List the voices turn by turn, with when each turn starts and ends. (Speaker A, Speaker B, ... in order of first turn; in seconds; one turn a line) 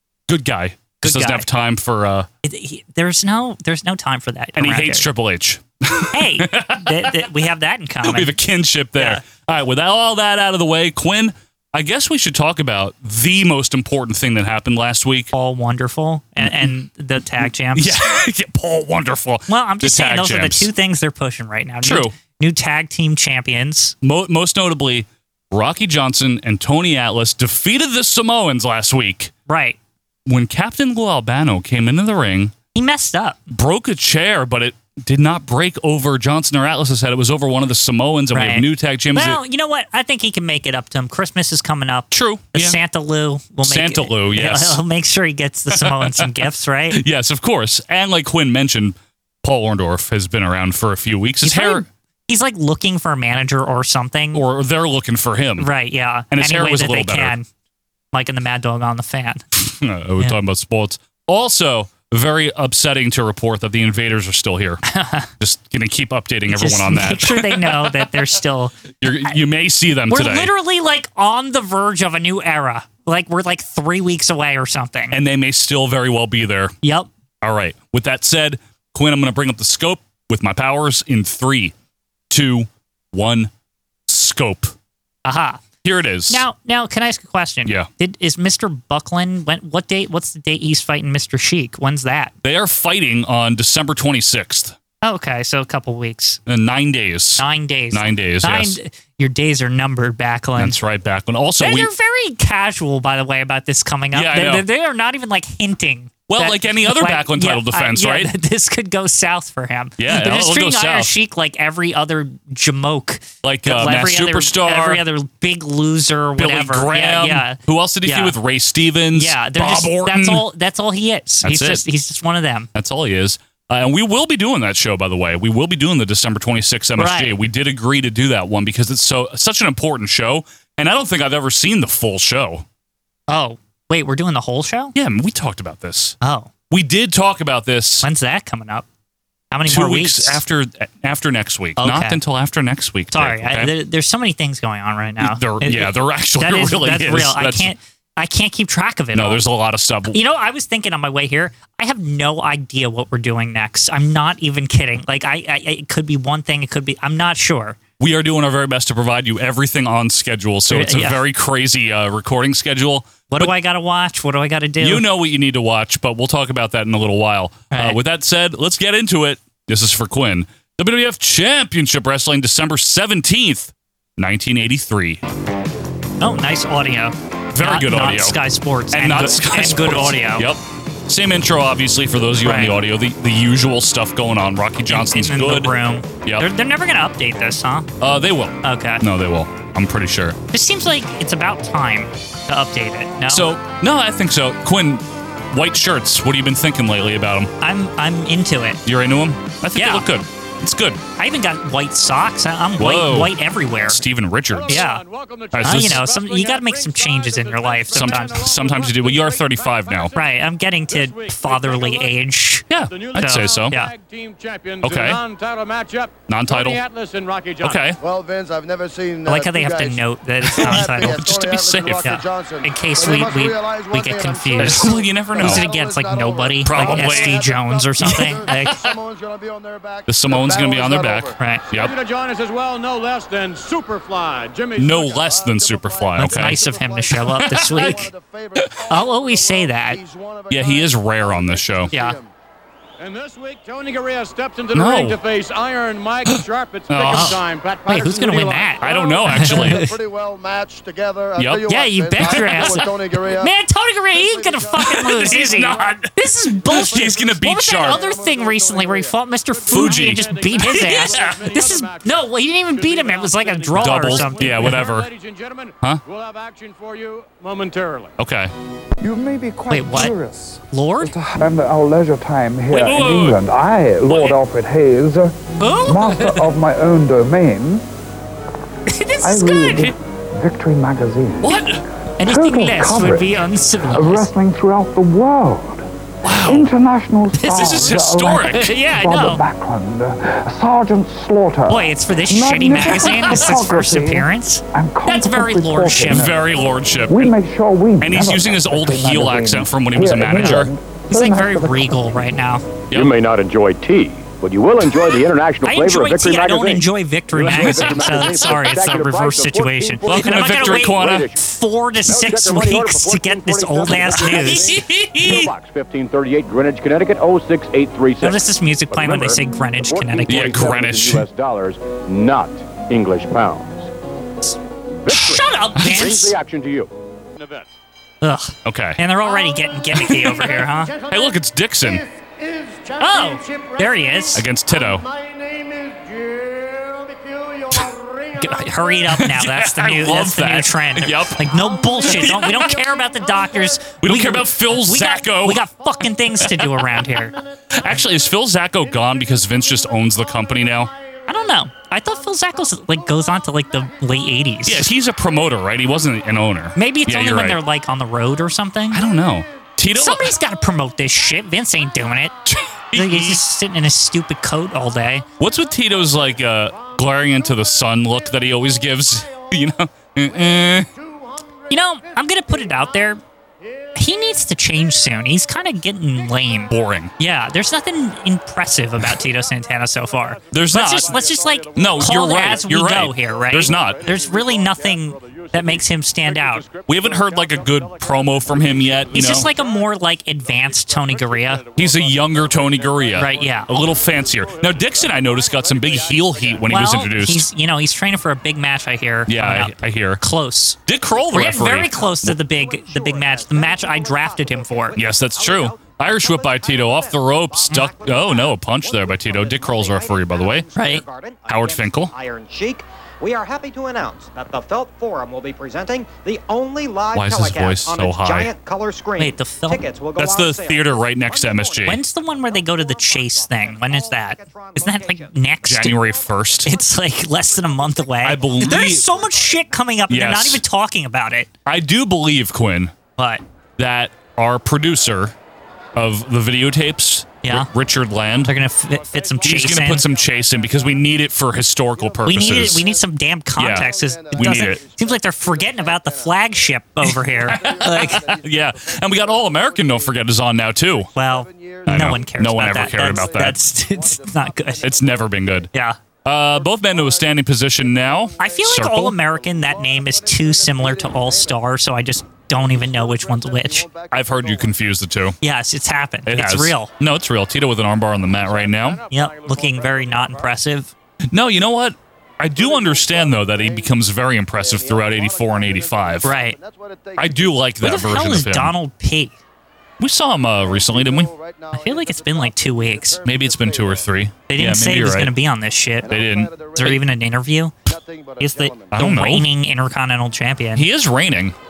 Speaker A: 0.3-2.3
Speaker B: 1.0-1.5
Speaker B: 2.4-5.1
Speaker A: 4.6-7.2
Speaker B: 6.1-8.3
Speaker A: 8.0-15.3
Speaker B: 9.0-9.2
Speaker B: 15.3-18.0
Speaker A: 16.4-16.7
Speaker A: 17.7-20.7
Speaker B: 19.5-23.9
Speaker A: 21.8-22.1
Speaker A: 24.0-29.3
Speaker B: 29.5-29.8
Speaker A: 30.3-32.5
Speaker B: 32.8-33.4
Speaker A: 33.5-39.4
Speaker B: 38.3-47.0
Speaker A: 42.1-42.8
Speaker A: 43.6-44.8
Speaker A: 45.7-46.4
Speaker A: 46.9-51.9
Speaker B: 51.4-54.4
Speaker A: 54.3-55.7
Speaker B: 55.6-57.5
Speaker A: 56.3-57.4
Speaker B: 58.1-59.5
Speaker A: 59.6-64.8
Speaker B: 64.9-65.3
Speaker A: 65.4-68.2
Speaker B: 66.5-68.9
Speaker A: 69.0-70.5
Speaker B: 70.1-75.2
Speaker A: 75.1-76.8
Speaker B: 76.8-77.1
Speaker A: 77.4-81.7
Speaker A: 82.3-83.5
Speaker A: 84.1-84.7
Speaker B: 85.2-85.6
Speaker A: 85.8-86.4
Speaker B: 86.3-92.3
Speaker A: 92.4-94.7
Speaker B: 95.0-96.4
Speaker A: 96.5-98.8
Speaker B: 97.4-100.8
Speaker A: 100.6-101.9
Speaker B: 101.6-118.4
Speaker A: 104.1-104.7
Speaker A: 106.3-108.3
Speaker A: 110.0-111.1
Speaker A: 113.4-115.0
Speaker A: 116.4-120.5
Speaker B: 119.1-122.7
Speaker A: 121.4-121.8
Speaker A: 122.8-132.7
Speaker B: 127.0-127.4
Speaker B: 133.3-134.9
Speaker A: 134.9-136.2
Speaker B: 136.2-136.5
Speaker A: 136.7-138.1
Speaker B: 138.0-138.9
Speaker B: 139.5-140.4
Speaker A: 139.7-143.7
Speaker B: 141.8-142.2
Speaker B: 143.1-149.4
Speaker A: 145.2-147.7
Speaker A: 149.2-150.2
Speaker B: 150.1-157.8
Speaker A: 158.0-163.5
Speaker B: 160.7-161.2
Speaker B: 163.3-165.1
Speaker A: 164.8-175.2
Speaker B: 167.7-168.0
Speaker B: 176.2-180.5
Speaker A: 177.5-178.4
Speaker A: 178.9-186.5
Speaker B: 182.4-182.8
Speaker B: 184.9-187.9
Speaker A: 188.0-190.4
Speaker B: 188.6-189.0
Speaker B: 190.5-193.5
Speaker A: 193.3-197.5
Speaker B: 197.6-198.8
Speaker A: 198.9-201.0
Speaker B: 199.8-200.1
Speaker B: 201.2-204.0
Speaker A: 202.8-204.8
Speaker C: 204.5-212.2
Speaker B: 204.7-205.0
Speaker A: 205.5-206.1
Speaker B: 205.6-208.5
Speaker A: 207.9-210.1
Speaker B: 210.1-213.9
Speaker A: 212.7-213.8
Speaker C: 212.9-217.9
Speaker A: 214.8-215.2
Speaker A: 216.3-216.8
Speaker A: 217.6-218.0
Speaker D: 218.0-220.0
Speaker B: 219.3-221.4
Speaker D: 220.5-231.4
Speaker A: 220.6-222.1
Speaker B: 222.0-228.8
Speaker A: 224.6-225.7
Speaker A: 226.7-227.4
Speaker A: 228.0-228.3
Speaker A: 230.1-231.9
Speaker B: 231.4-231.6
Speaker C: 231.7-235.1
Speaker A: 234.8-236.6
Speaker D: 235.0-242.3
Speaker B: 236.2-238.1
Speaker A: 237.2-237.9
Speaker B: 238.9-240.0
Speaker A: 240.5-241.9
Speaker B: 241.9-242.2
Speaker C: 243.0-249.2
Speaker A: 244.7-245.2
Speaker A: 246.9-247.4
Speaker B: 247.1-250.0
Speaker D: 248.8-253.6
Speaker A: 248.8-249.8
Speaker A: 251.4-251.7
Speaker B: 251.7-264.9
Speaker A: 252.2-252.8
Speaker D: 254.1-256.0
Speaker A: 254.8-258.0
Speaker D: 256.9-259.2
Speaker C: 259.5-268.1
Speaker A: 259.7-261.5
Speaker A: 263.8-265.1
Speaker A: 268.2-268.5
Speaker E: 269.0-277.9
Speaker B: 269.7-270.1
Speaker B: 270.7-271.1
Speaker A: 272.7-273.4
Speaker B: 275.6-276.4
Speaker B: 278.9-279.9
Speaker E: 279.2-281.6
Speaker A: 281.4-281.8
Speaker B: 282.2-284.3
Speaker E: 282.2-296.5
Speaker A: 286.2-286.7
Speaker B: 287.3-288.0
Speaker A: 287.5-288.7
Speaker B: 288.5-289.4
Speaker B: 291.7-296.3
Speaker A: 296.1-297.3
Speaker E: 297.1-302.1
Speaker A: 298.0-300.7
Speaker B: 301.1-302.7
Speaker F: 302.9-311.4
Speaker B: 305.6-314.8
Speaker A: 307.4-308.5
Speaker A: 310.1-311.3
Speaker F: 312.1-323.9
Speaker A: 314.2-315.5
Speaker B: 318.2-320.6
Speaker A: 320.3-321.2
Speaker F: 325.0-326.9
Speaker B: 325.1-326.4
Speaker A: 325.8-326.0
Speaker C: 327.4-327.7
Speaker B: 328.2-330.9
Speaker A: 328.6-329.0
Speaker A: 329.9-330.6
Speaker C: 330.9-331.3
Speaker A: 331.1-332.0
Speaker C: 332.2-334.3
Speaker B: 333.0-334.5
Speaker A: 334.3-335.1
Speaker C: 334.8-338.4
Speaker B: 338.4-347.4
Speaker A: 339.1-342.8
Speaker C: 343.0-343.6
Speaker A: 344.0-345.7
Speaker A: 346.4-346.8
Speaker A: 347.7-350.9
Speaker B: 351.3-354.9
Speaker A: 354.7-357.6
Speaker B: 356.8-359.0
Speaker A: 358.9-360.4
Speaker B: 359.9-362.3
Speaker A: 362.4-363.4
Speaker B: 362.9-365.2
Speaker A: 365.4-370.9
Speaker B: 371.7-373.2
Speaker B: 373.9-386.6
Speaker A: 376.7-377.1
Speaker C: 379.4-397.0
Speaker A: 380.5-381.2
Speaker A: 381.8-384.1
Speaker A: 386.9-389.5
Speaker B: 389.1-391.6
Speaker A: 391.8-397.5
Speaker B: 393.1-393.7
Speaker B: 396.7-400.8
Speaker A: 399.3-400.2
Speaker A: 400.9-402.4
Speaker B: 401.3-405.0
Speaker G: 401.8-425.5
Speaker A: 404.9-410.7
Speaker B: 410.8-411.0
Speaker A: 411.5-412.1
Speaker A: 417.1-418.5
Speaker B: 419.2-419.8
Speaker A: 420.2-422.0
Speaker B: 421.9-426.0
Speaker A: 425.6-426.7
Speaker B: 426.6-431.5
Speaker G: 427.6-428.1
Speaker A: 428.2-429.1
Speaker A: 430.1-430.6
Speaker A: 431.6-432.9
Speaker B: 433.2-433.4
Speaker A: 433.8-435.4
Speaker A: 435.9-438.5
Speaker B: 437.4-437.7
Speaker B: 438.4-440.1
Speaker C: 438.9-441.3
Speaker A: 439.4-442.8
Speaker D: 442.0-455.7
Speaker B: 442.2-448.3
Speaker A: 443.6-444.8
Speaker A: 447.4-451.1
Speaker B: 451.1-454.9
Speaker A: 451.9-453.6
Speaker A: 454.8-455.7
Speaker B: 455.7-456.0
Speaker A: 456.2-459.2
Speaker D: 456.4-461.7
Speaker B: 458.4-463.9
Speaker D: 462.5-464.8
Speaker A: 464.1-465.4
Speaker B: 465.4-466.9
Speaker A: 466.3-469.0
Speaker C: 468.2-470.6
Speaker B: 469.1-470.9
Speaker A: 471.3-476.3
Speaker D: 472.6-473.9
Speaker D: 474.6-477.6
Speaker B: 476.2-476.6
Speaker A: 477.2-478.7
Speaker B: 477.8-479.4
Speaker A: 480.0-481.3
Speaker D: 480.6-484.1
Speaker B: 481.7-483.2
Speaker A: 483.2-485.3
Speaker B: 484.5-486.1
Speaker D: 486.0-487.1
Speaker A: 486.1-486.9
Speaker B: 486.8-487.7
Speaker D: 487.9-489.1
Speaker B: 488.4-490.9
Speaker A: 488.9-489.5
Speaker A: 490.8-491.6